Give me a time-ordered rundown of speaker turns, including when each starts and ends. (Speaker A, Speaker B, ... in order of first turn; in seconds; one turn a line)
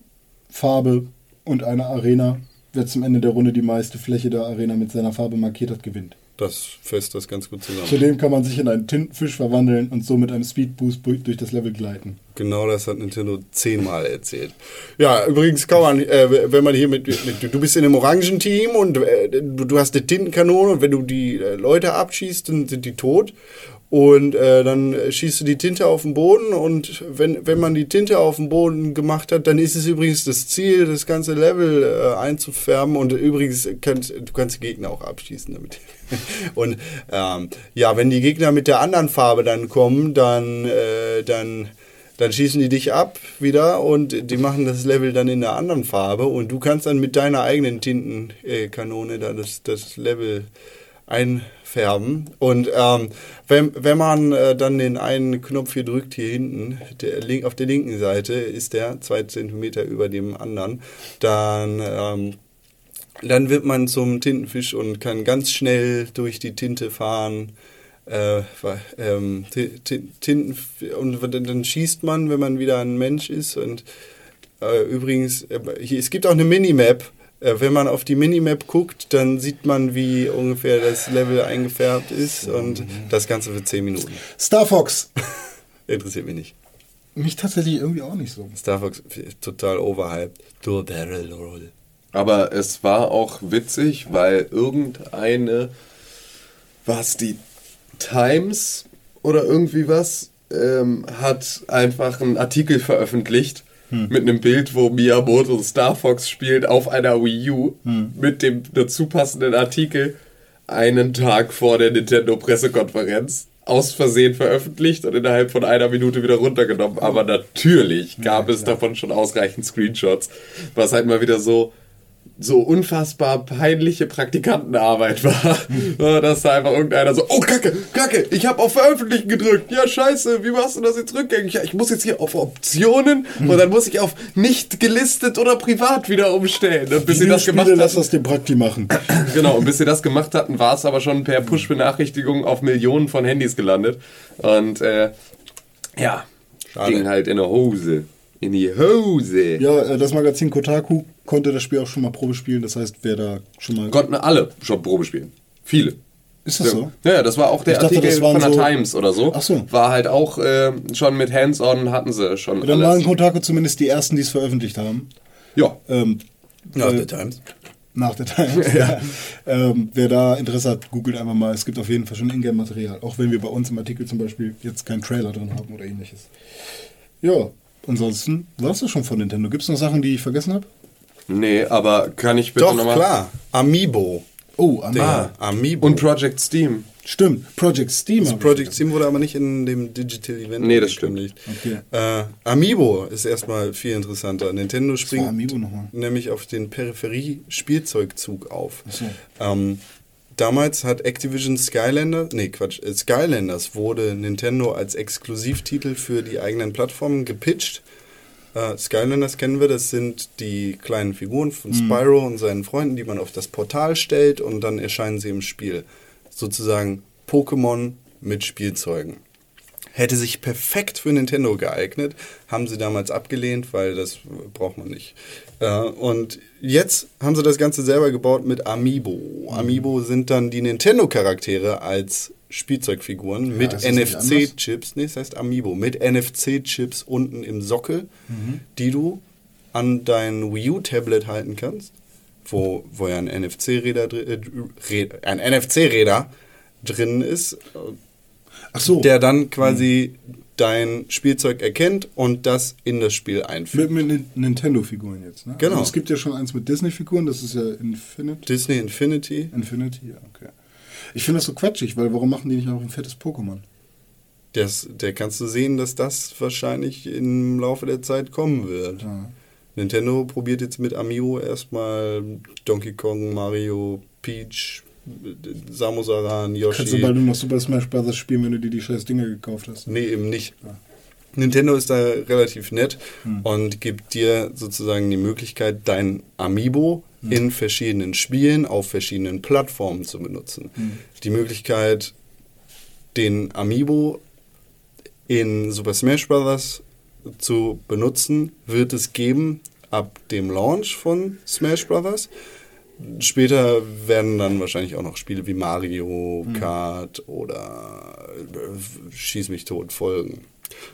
Speaker A: 0.5-6.2
Speaker B: 6.4-8.0
Speaker A: 7.8-12.2
Speaker B: 12.3-23.3
Speaker B: 23.9-50.5
Speaker B: 51.1-62.4
Speaker B: 63.2-67.5
Speaker B: 68.1-73.8
Speaker B: 74.6-84.2
Speaker A: 82.5-83.1
Speaker A: 84.4-85.1
Speaker B: 85.9-86.5
Speaker A: 87.2-88.6
Speaker B: 88.6-91.7
Speaker C: 92.1-95.7
Speaker C: 96.8-97.4
Speaker C: 98.0-110.2
Speaker A: 107.9-108.1
Speaker C: 110.7-121.7
Speaker A: 118.2-118.6
Speaker C: 122.4-138.0
Speaker A: 137.1-139.1
Speaker C: 139.1-145.1
Speaker C: 146.0-146.2
Speaker B: 146.7-147.1
Speaker C: 146.8-149.6
Speaker A: 149.6-153.9
Speaker C: 153.9-156.0
Speaker A: 156.4-156.9
Speaker C: 156.6-163.0
Speaker A: 157.7-158.7
Speaker A: 159.3-159.7
Speaker A: 162.6-165.1
Speaker A: 165.9-167.1
Speaker B: 166.8-167.4
Speaker A: 167.9-176.3
Speaker C: 168.6-169.0
Speaker A: 177.2-180.7
Speaker C: 181.3-183.1
Speaker B: 182.6-184.3
Speaker A: 184.6-185.3
Speaker B: 184.9-186.1
Speaker C: 185.0-186.9
Speaker A: 187.1-188.8
Speaker B: 188.2-199.8
Speaker C: 190.6-191.2
Speaker A: 191.5-191.8
Speaker A: 195.0-195.9
Speaker A: 198.9-199.2
Speaker B: 200.3-207.8
Speaker B: 208.5-219.2
Speaker A: 211.7-212.0
Speaker B: 219.9-238.1
Speaker A: 229.6-229.8
Speaker A: 233.5-234.5
Speaker A: 238.3-238.6
Speaker B: 238.8-239.2
Speaker B: 239.7-241.9
Speaker B: 242.4-246.3
Speaker B: 246.8-248.0
Speaker A: 248.7-249.1
Speaker B: 248.9-253.9
Speaker A: 253.7-258.5
Speaker B: 255.6-255.9
Speaker B: 258.5-259.5
Speaker A: 259.5-260.5
Speaker A: 261.1-263.6
Speaker B: 264.5-269.1
Speaker A: 269.0-269.3
Speaker B: 269.8-277.2
Speaker A: 276.7-279.9
Speaker B: 279.9-280.6
Speaker B: 281.4-292.1
Speaker B: 293.1-294.2
Speaker B: 295.3-302.3
Speaker B: 303.0-310.5